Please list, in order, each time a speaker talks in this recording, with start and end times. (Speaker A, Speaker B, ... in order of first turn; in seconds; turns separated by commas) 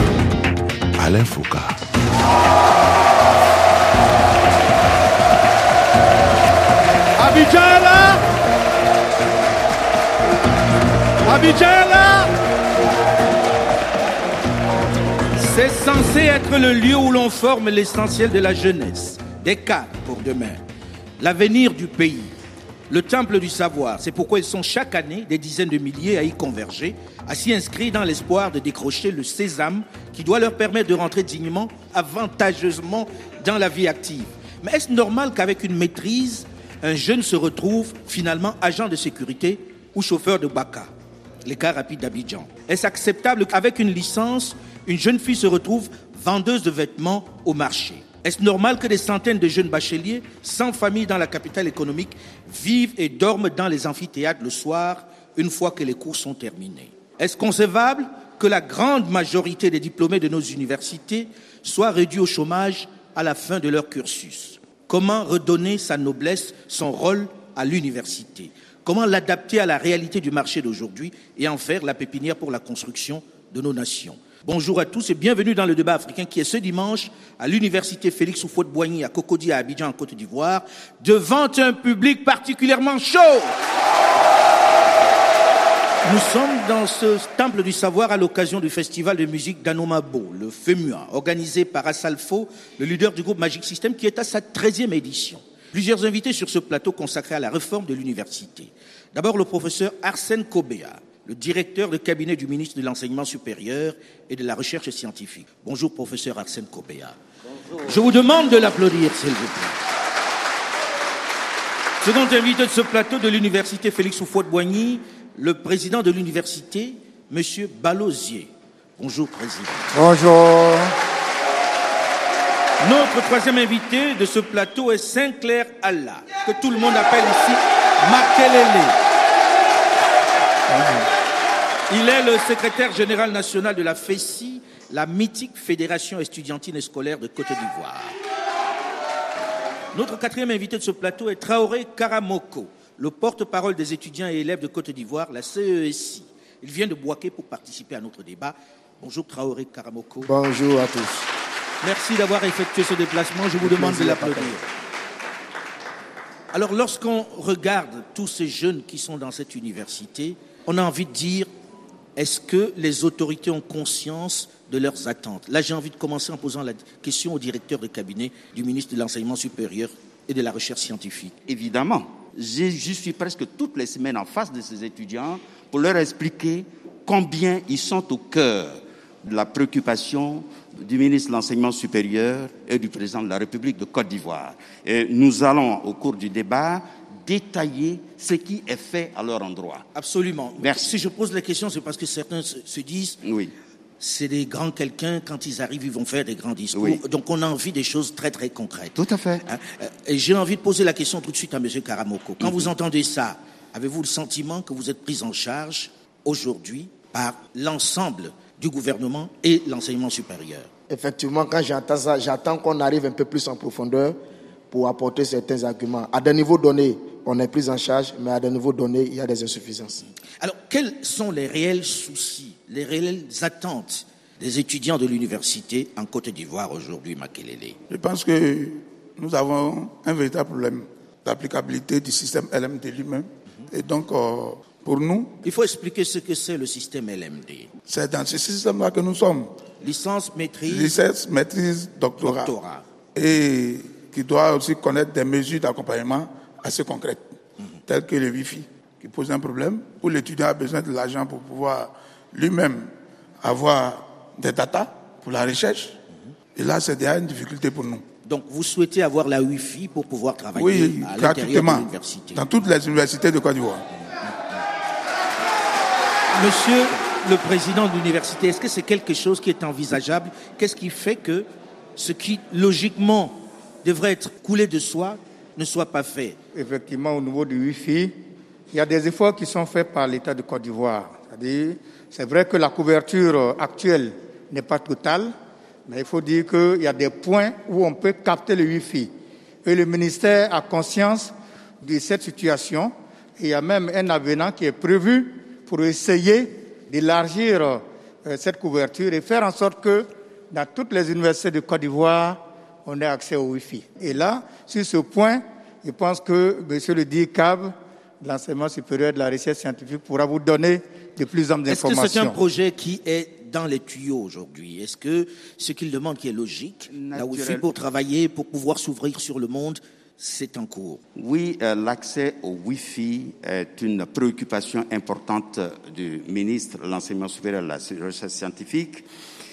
Speaker A: 7.2-8.2, Speaker A: 11.2-12.3, Speaker A: 15.4-20.6, Speaker A: 21.2-22.3, Speaker A: 22.9-40.9, Speaker A: 41.4-83.5, Speaker A: 86.0-107.2, Speaker A: 107.7-109.8, Speaker A: 112.0-119.9, Speaker B: 119.9-120.9, Speaker A: 122.8-129.0, Speaker B: 130.7-131.1, Speaker A: 131.9-138.2, Speaker A: 139.9-150.3, Speaker C: 150.2-151.3, Speaker A: 151.8-154.6, Speaker C: 153.6-154.5, Speaker A: 156.5-161.5, Speaker A: 162.2-171.3, Speaker D: 171.5-189.9, Speaker A: 189.9-193.2, Speaker D: 190.6-190.9, Speaker D: 193.2-193.5, Speaker A: 194.0-210.7, Speaker D: 196.7-197.0, Speaker D: 198.9-199.4, Speaker D: 202.4-202.7, Speaker C: 210.9-214.2, Speaker C: 214.7-220.0, Speaker A: 220.4-227.8, Speaker E: 227.9-235.3, Speaker A: 235.4-237.7, Speaker E: 237.9-239.5, Speaker A: 239.8-241.0, Speaker E: 240.7-242.5, Speaker A: 242.2-242.8, Speaker E: 243.1-247.3, Speaker E: 247.9-252.9, Speaker E: 253.4-256.0, Speaker E: 256.5-258.0, Speaker A: 258.2-262.4, Speaker E: 260.5-263.8, Speaker A: 266.3-276.4, Speaker B: 276.5-278.1, Speaker B: 278.7-285.3, Speaker B: 285.9-289.1, Speaker B: 289.6-312.4, Speaker A: 311.7-321.0, Speaker D: 316.9-317.6, Speaker D: 321.1-329.0